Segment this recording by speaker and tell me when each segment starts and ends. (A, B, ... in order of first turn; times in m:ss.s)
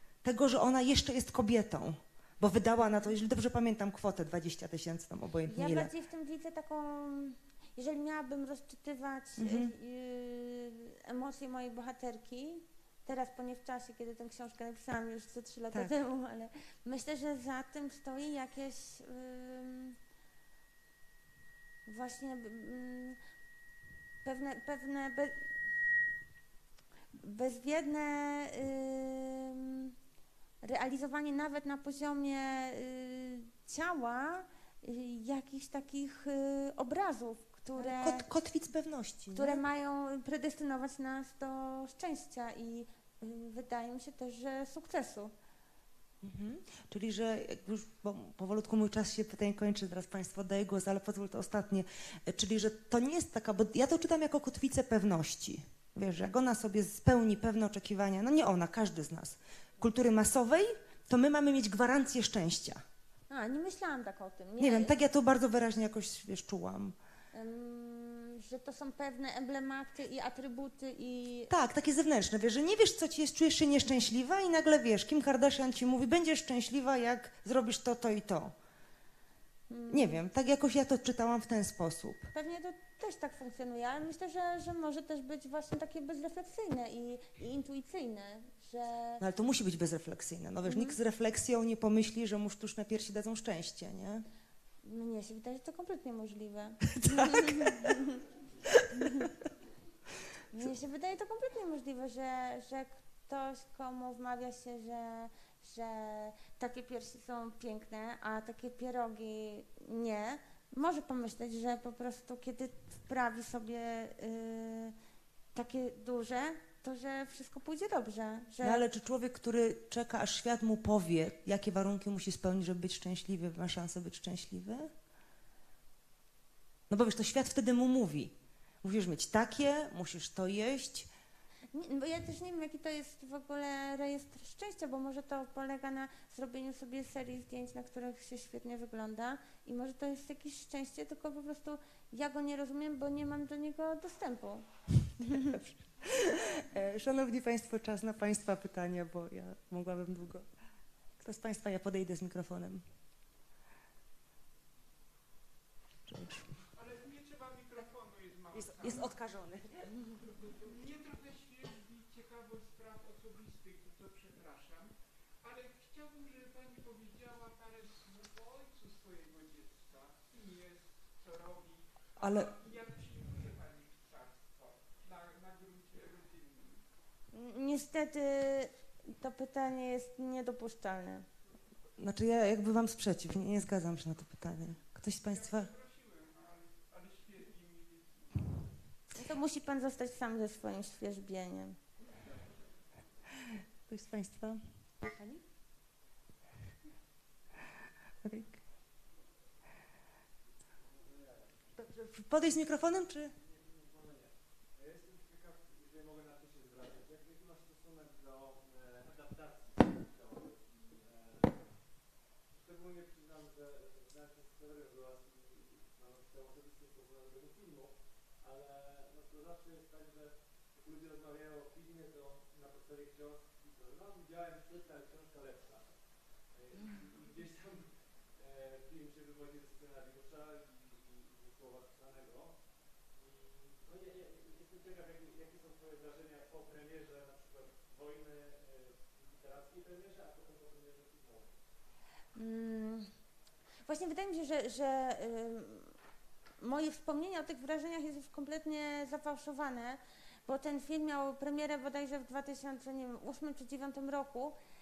0:00.2-0:05.9 A
0:05.5-0:20.0 B
0:09.4-0:09.7 A
0:21.8-0:23.2 B
0:24.2-0:25.5 B
0:27.1-0:29.9 B
0:30.6-0:38.2 B
0:37.8-0:39.6 A
0:39.3-0:45.3 B
0:46.2-1:02.8 A
1:03.3-1:04.9 B
1:04.6-1:06.9 A
1:07.3-1:11.5 B
1:11.5-1:18.5 A
1:19.7-1:20.2 B
1:19.9-1:22.3 A
1:22.3-1:29.2 B
1:29.2-1:34.2 A
1:30.6-1:31.0 B
1:34.8-1:38.2 B
1:37.0-1:37.9 A
1:38.7-1:39.3 A
1:38.9-1:39.3 B
1:40.5-1:54.9 B
1:55.5-1:58.8 B
1:58.6-2:04.9 A
2:06.9-2:11.1 A
2:11.7-2:24.6 B
2:25.2-2:25.6 B
2:25.3-2:30.5 A
2:31.2-2:32.8 A
2:36.1-2:36.5 A
2:36.7-2:39.2 C
2:38.5-2:39.9 A
2:40.2-2:56.8 C
2:52.2-2:52.5 A
2:57.3-3:01.2 B
3:02.0-3:05.7 A
3:05.2-3:08.7 C
3:09.1-3:11.8 B
3:12.2-3:12.6 C
3:13.9-3:14.6 A
3:18.2-3:18.6 A
3:20.8-3:21.7 D
3:21.8-3:23.3 A
3:23.3-3:31.8 D
3:32.5-3:52.6 D
3:53.1-4:01.5 D
4:02.3-4:03.1 B
4:03.8-4:06.0 B
4:06.6-4:14.6 B